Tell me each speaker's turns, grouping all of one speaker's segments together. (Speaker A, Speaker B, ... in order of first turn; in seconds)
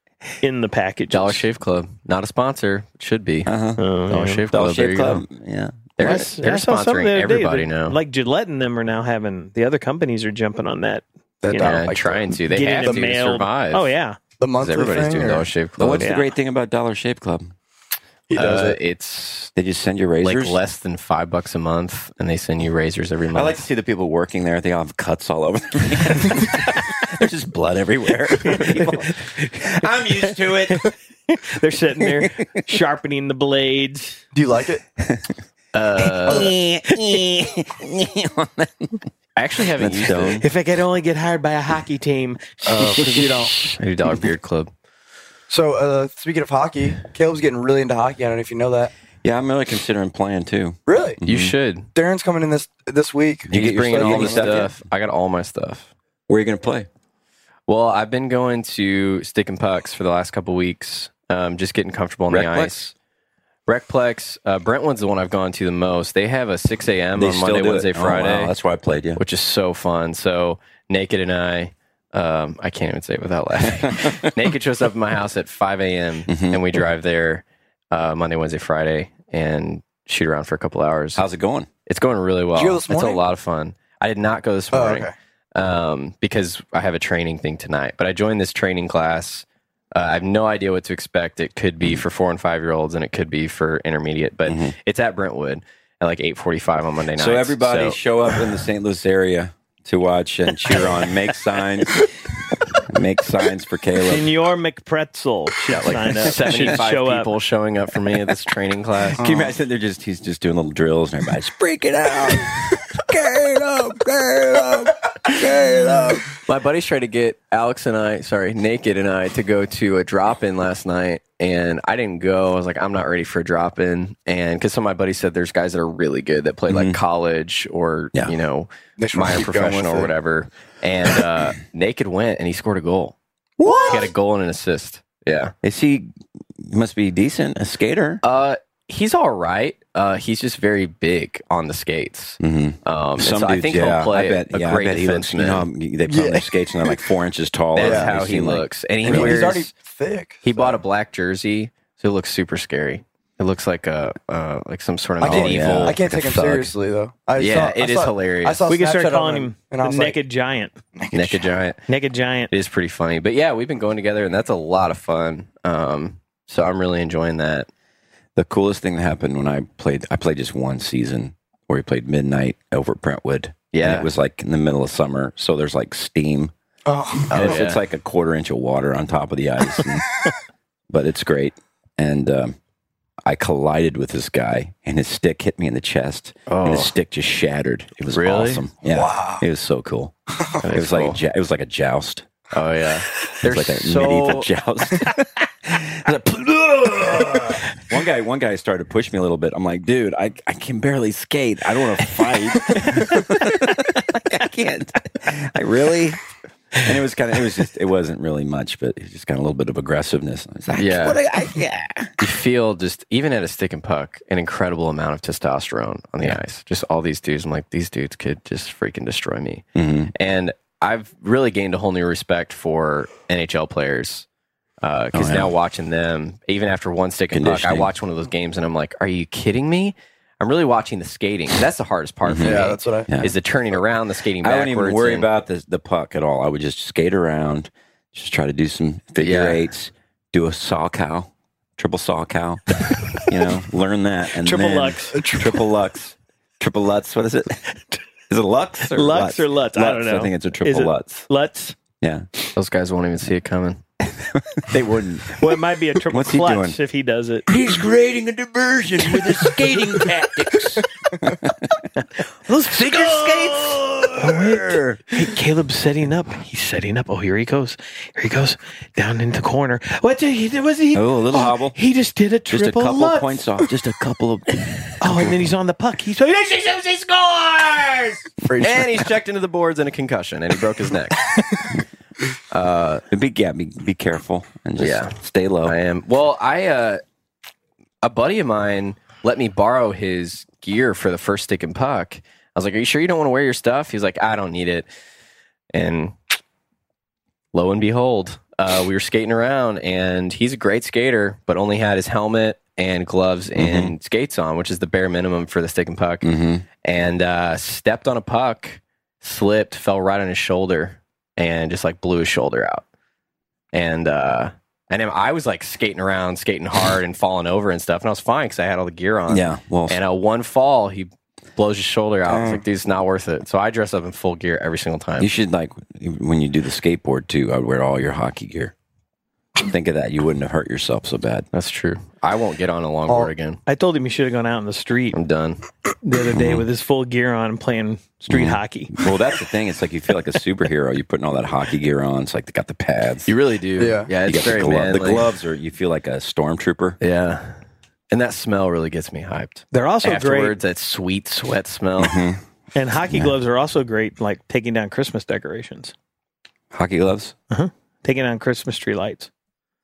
Speaker A: 0.4-1.4, 3.8-4.5, 6.0-11.9, 12.5-14.2, 16.0-16.3, 28.5-29.1, 30.2-34.2, 40.4-42.6, 104.0-107.3, 158.7-160.8, 161.9-162.5, 244.4-245.2, 248.9-251.8, 255.3-257.5, 262.0-273.5, 275.0-278.3, 333.7-335.2, 336.0-338.9, 349.7-350.5, 352.8-355.9, 357.5-359.3
Speaker B: 1.1-3.5, 4.1-5.2, 6.0-8.0, 11.6-13.9, 14.6-16.1, 18.3-19.5, 20.2-23.6, 35.7-36.5, 39.4-40.4, 43.8-44.7, 51.2-51.9, 53.5-55.9, 57.7-62.9, 63.7-68.5, 69.2-81.2, 81.9-98.4, 105.7-109.2, 116.5-133.2, 133.7-135.5, 138.2-145.7, 147.8-149.7, 150.4-156.2, 157.4-158.6, 161.1-161.8, 162.5-167.7, 173.7-174.1, 177.3-177.8, 186.5-186.9, 188.1-188.6, 190.6-191.2, 192.5-194.5, 210.8-211.2, 212.2-224.2, 224.8-235.3, 239.2-239.6, 252.5-253.8, 278.6-281.3, 282.5-283.0, 284.8-287.0, 288.0-294.9, 295.7-296.4, 297.5-306.3, 306.8-312.8, 313.7-325.3, 331.5-333.6, 335.1-335.6, 343.3-345.3, 347.0-347.6, 348.1-352.1
Speaker C: 3.5-3.9, 4.5-6.0, 15.8-17.5, 19.5-20.6, 23.3-30.9, 36.2-39.0, 39.8-40.5, 49.2-51.5, 53.5-54.7, 56.3-56.9, 62.3-62.8, 67.2-69.2, 73.9-74.3, 76.3-76.6, 81.2-81.7, 94.5-94.7, 97.2-102.0, 102.9-104.3, 106.5-106.7, 109.1-116.3, 126.7-127.0, 135.6-138.2, 142.4-149.5, 155.2-156.7, 168.4-176.5, 177.3-180.1, 180.9-182.6, 183.2-192.3, 193.4-206.2, 206.8-212.1, 219.8-220.1, 225.1-225.5, 227.3-227.9, 232.2-233.3, 234.4-247.7, 248.3-251.3, 252.0-252.2, 254.2-255.4, 256.1-256.8, 257.5-261.9, 262.6-265.3, 270.9-271.8, 272.5-275.5, 283.1-285.8, 303.6-303.9, 306.2-306.6, 319.3-320.0, 325.2-328.7, 329.6-331.5, 336.3-336.7, 338.3-343.3, 344.2-347.0, 352.0-352.4, 356.7-357.3
Speaker D: 11.4-13.1, 14.4-15.5, 18.3-18.8, 34.3-34.8, 42.6-43.5, 45.5-48.9, 50.9-51.2, 52.0-54.6, 82.5-83.2, 84.7-85.1, 109.2-109.5, 129.0-130.1, 133.6-134.1, 146.1-147.0, 147.8-148.1, 149.0-150.8, 155.2-160.2, 161.0-161.6, 176.9-177.6, 188.9-189.4, 232.4-233.1, 245.1-245.6, 278.4-279.1, 322.3-322.6, 343.8-344.1